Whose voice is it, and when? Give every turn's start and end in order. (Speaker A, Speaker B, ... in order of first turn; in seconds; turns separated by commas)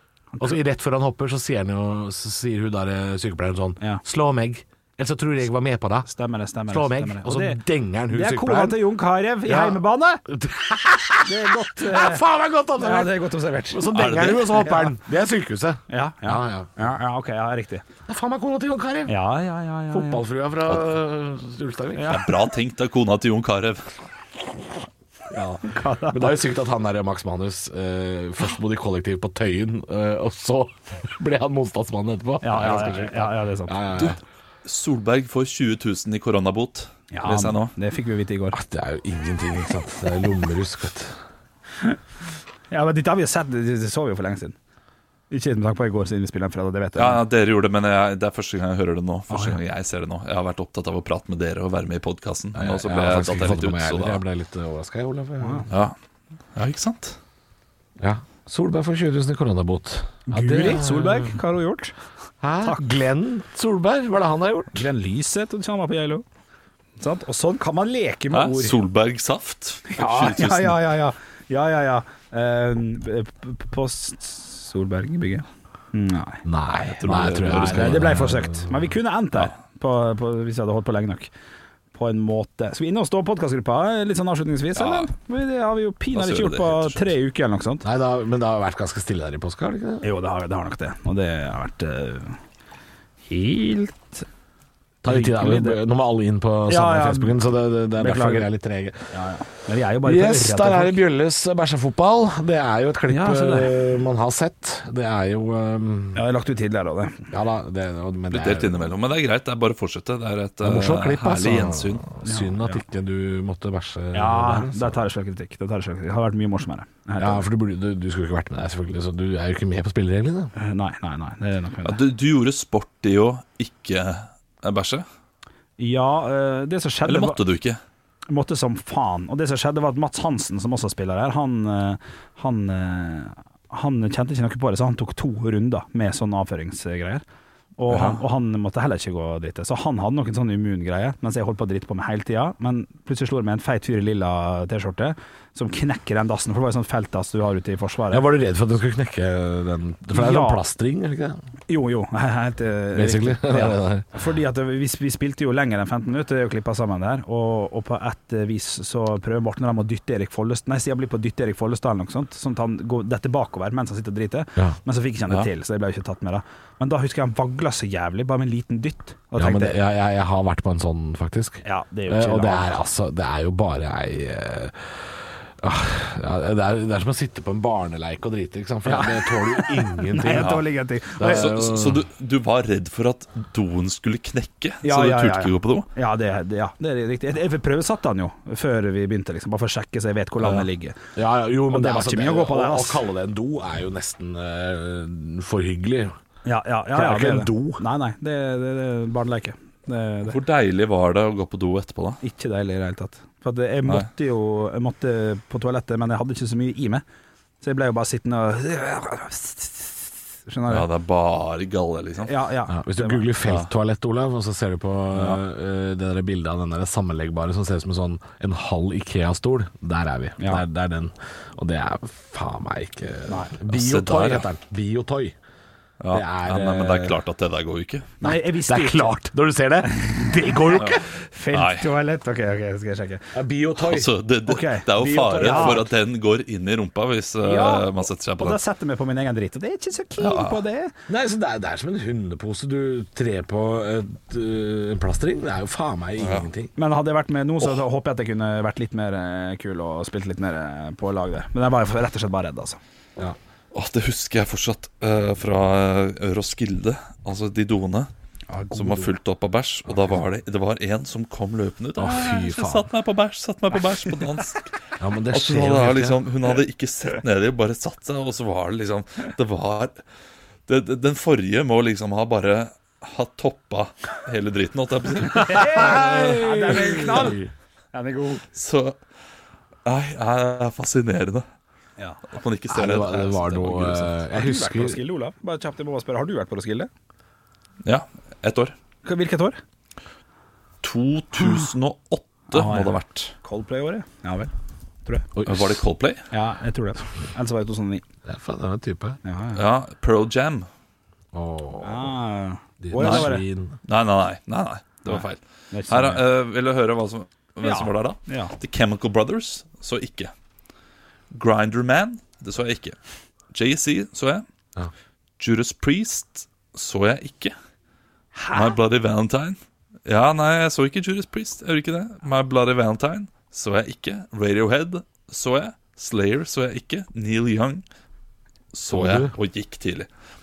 Speaker A: 0.4-6.1, Speaker B: 6.1-10.2, Speaker A: 6.7-8.8, Speaker A: 9.4-13.2, Speaker B: 11.2-12.2, Speaker B: 12.8-14.9, Speaker A: 13.7-16.8, Speaker C: 13.9-14.8, Speaker B: 15.9-17.9, Speaker A: 18.1-19.1, Speaker B: 19.1-20.2, Speaker A: 19.9-22.2, Speaker B: 21.9-22.3, Speaker C: 22.0-23.9, Speaker A: 25.3-34.2, Speaker B: 25.6-26.4, Speaker B: 32.4-33.8, Speaker C: 34.0-37.7, Speaker B: 37.1-38.6, Speaker A: 38.5-41.2, Speaker B: 42.7-44.5, Speaker B: 45.3-47.2, Speaker C: 47.0-54.2, Speaker B: 49.3-49.6, Speaker A: 52.5-55.7, Speaker B: 55.4-55.6, Speaker C: 55.7-55.9, Speaker C: 56.5-57.2, Speaker A: 58.0-61.3, Speaker B: 60.3-62.0, Speaker A: 62.4-64.8, Speaker B: 64.7-66.2, Speaker B: 67.0-68.8, Speaker C: 68.3-70.8, Speaker B: 69.9-76.4, Speaker A: 76.4-78.9, Speaker C: 76.9-78.1, Speaker B: 77.5-81.3, Speaker B: 81.9-87.8, Speaker C: 84.8-85.1, Speaker C: 86.1-87.1, Speaker A: 87.8-90.1, Speaker B: 90.0-92.4, Speaker B: 93.2-94.2, Speaker A: 95.0-99.1, Speaker B: 95.1-95.8, Speaker B: 96.7-97.4, Speaker B: 98.0-98.5, Speaker B: 99.1-101.0, Speaker A: 100.0-106.2, Speaker B: 103.1-103.7, Speaker B: 106.1-107.3, Speaker A: 107.3-108.8, Speaker C: 108.3-112.0, Speaker A: 110.6-115.1, Speaker B: 112.2-112.8, Speaker B: 114.1-117.4, Speaker A: 117.2-120.5, Speaker B: 120.5-122.0, Speaker C: 121.8-125.0, Speaker B: 125.8-127.4, Speaker C: 127.0-127.8, Speaker B: 128.3-137.2, Speaker B: 137.8-148.2, Speaker C: 137.9-138.2, Speaker A: 148.1-151.4, Speaker B: 150.1-150.6, Speaker B: 151.7-169.8, Speaker A: 152.9-154.1, Speaker A: 169.3-180.6, Speaker B: 171.6-172.8, Speaker B: 178.8-181.6, Speaker C: 180.3-180.7, Speaker A: 181.2-182.0, Speaker C: 181.2-185.9, Speaker B: 184.8-191.0, Speaker C: 190.4-190.7, Speaker A: 191.1-196.1, Speaker B: 191.7-193.0, Speaker B: 196.4-200.4, Speaker A: 196.9-197.8, Speaker C: 200.3-202.2, Speaker B: 202.2-207.0, Speaker B: 207.6-210.9, Speaker C: 210.7-212.3, Speaker B: 212.2-213.3, Speaker A: 212.7-225.3, Speaker B: 220.4-220.6, Speaker B: 223.3-223.5, Speaker C: 223.7-224.5, Speaker C: 226.0-228.1, Speaker A: 226.1-227.2, Speaker B: 228.2-229.1, Speaker A: 228.2-231.1, Speaker B: 230.0-233.3, Speaker C: 231.5-231.9, Speaker A: 233.3-234.1, Speaker C: 233.8-238.6, Speaker B: 234.5-234.9, Speaker A: 234.9-235.9, Speaker B: 235.4-235.9, Speaker B: 237.4-240.9, Speaker C: 240.2-240.6, Speaker A: 241.1-246.7, Speaker C: 246.2-246.5, Speaker B: 246.8-252.8, Speaker C: 253.7-258.1, Speaker B: 258.5-259.1, Speaker C: 258.7-264.7, Speaker A: 262.0-262.9, Speaker A: 265.0-266.2, Speaker C: 265.3-270.0, Speaker C: 270.7-277.3, Speaker B: 275.3-277.4, Speaker A: 275.7-277.5, Speaker B: 277.9-278.4, Speaker C: 278.5-279.0, Speaker C: 279.8-281.4, Speaker C: 282.3-284.2, Speaker A: 282.7-285.0, Speaker B: 284.3-286.9, Speaker C: 287.8-288.7, Speaker B: 289.0-289.6, Speaker C: 290.8-293.3, Speaker B: 291.4-291.7, Speaker B: 292.5-294.5, Speaker A: 295.4-295.8, Speaker C: 295.4-296.3, Speaker B: 296.3-298.0, Speaker A: 298.2-299.2, Speaker B: 299.2-299.6, Speaker C: 299.5-300.7, Speaker A: 301.3-302.1, Speaker B: 301.8-303.4, Speaker A: 302.8-303.8, Speaker C: 303.0-303.3, Speaker C: 303.8-310.3, Speaker B: 305.1-306.2, Speaker B: 307.6-308.5, Speaker C: 311.3-313.0, Speaker C: 313.5-314.4, Speaker C: 315.4-317.5, Speaker B: 318.4-318.8, Speaker C: 318.5-327.8, Speaker C: 328.7-330.1, Speaker A: 328.9-329.3